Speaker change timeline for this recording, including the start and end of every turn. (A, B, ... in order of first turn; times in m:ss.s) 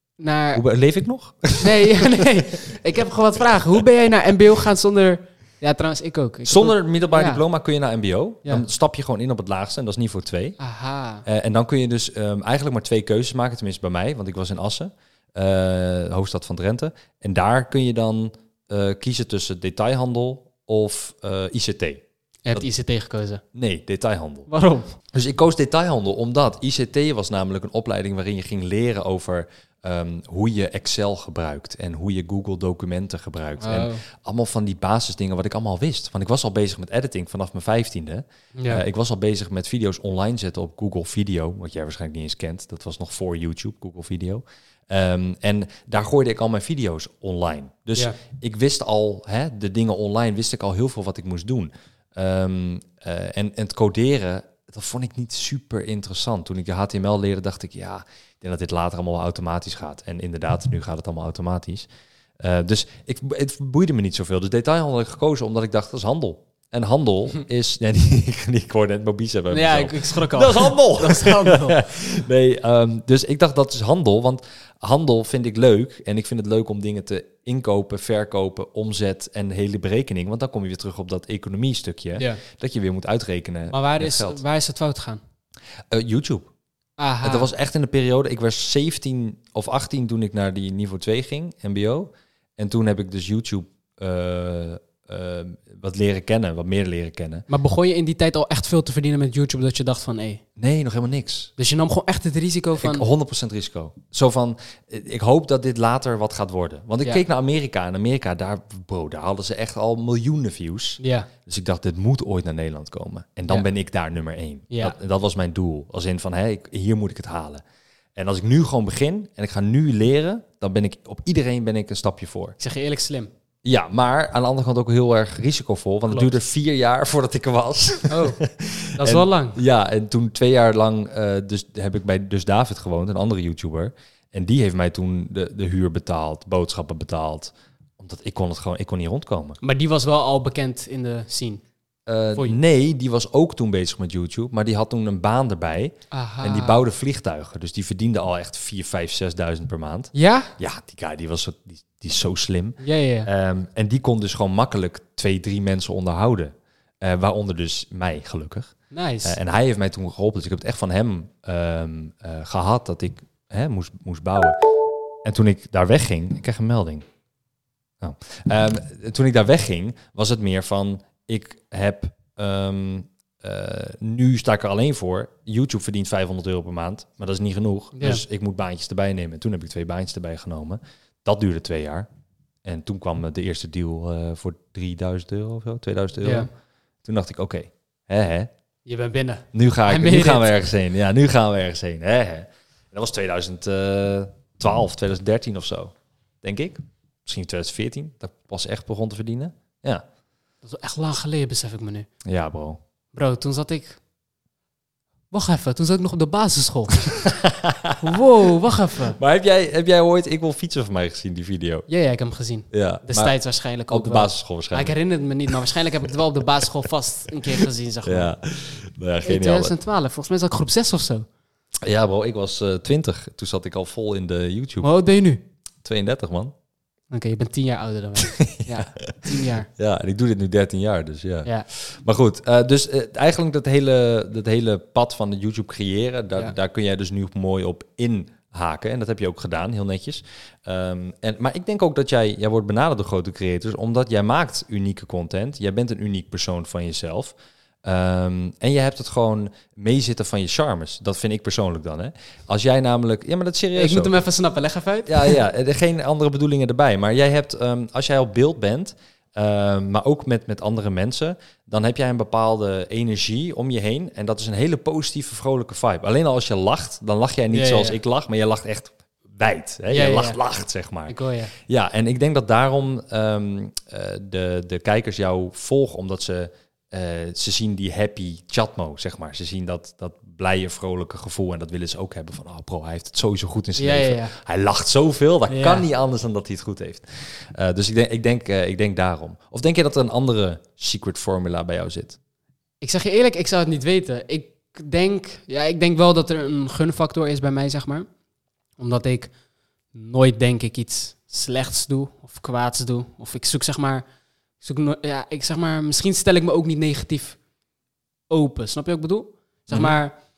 0:00.2-0:00.6 A
0:00.5-0:02.2 B
0:01.6-0:07.4 A
0:06.5-0:10.6 B
0:10.6-0:11.2 A
0:11.2-0:22.6 B
0:22.4-0:23.4 A
0:23.5-0:24.5 B
0:24.5-0:24.9 A
0:25.1-1:01.9 B
0:33.6-0:34.0 A
0:38.5-0:38.8 A
1:02.4-1:24.4 B
1:09.5-1:11.8 A
1:22.2-1:22.4 A
1:23.7-1:25.2 A
1:25.9-1:26.5 B
1:27.0-1:27.5 A
1:27.2-1:37.5 B
1:37.5-1:40.4 A
1:40.6-1:41.5 B
1:41.6-1:43.1 A
1:42.8-1:57.6 B
1:51.0-1:51.3 A
1:58.2-2:02.6 B
2:02.6-2:03.3 A
2:03.6-2:19.6 B
2:08.1-2:08.4 A
2:09.0-2:09.6 A
2:19.6-2:21.6 A
2:22.1-2:44.6 B
2:26.1-2:26.8 A
2:30.1-2:30.5 A
2:32.8-2:33.3 A
2:38.9-2:39.4 A
2:45.2-2:47.0 B
2:48.0-3:02.1 B
2:58.0-2:58.2 A
3:02.6-3:06.5 B
3:06.2-3:06.5 A
3:07.0-3:08.5 B
3:08.8-3:10.6 A
3:09.5-3:20.0 B
3:20.6-3:22.1 A
3:22.2-3:22.8 B
3:23.1-3:24.0 A
3:25.3-3:27.3 A
3:27.2-3:28.0 B
3:28.0-3:29.2 A
3:29.2-3:31.9 B
3:31.9-3:38.3 A
3:32.7-3:33.3 B
3:33.9-3:34.9 B
3:37.6-3:39.7 B
3:39.2-3:41.2 A
3:41.8-3:44.9 B
3:44.8-3:45.4 A
3:45.8-3:46.5 B
3:47.1-3:49.7 A
3:48.2-3:49.2 B
3:49.8-4:14.2 B
4:13.7-4:15.4 A
4:15.1-4:31.1 B
4:27.5-4:28.0 A
4:29.9-4:30.4 A
4:31.1-4:31.5 A
4:31.7-4:52.2 B
4:43.8-4:44.4 A
4:45.5-4:45.8 A
4:52.8-4:58.1 A
4:58.8-4:59.3 A
4:59.9-5:04.0 A
5:04.6-5:07.4 A
5:08.3-5:10.1 A
5:09.7-5:10.0 B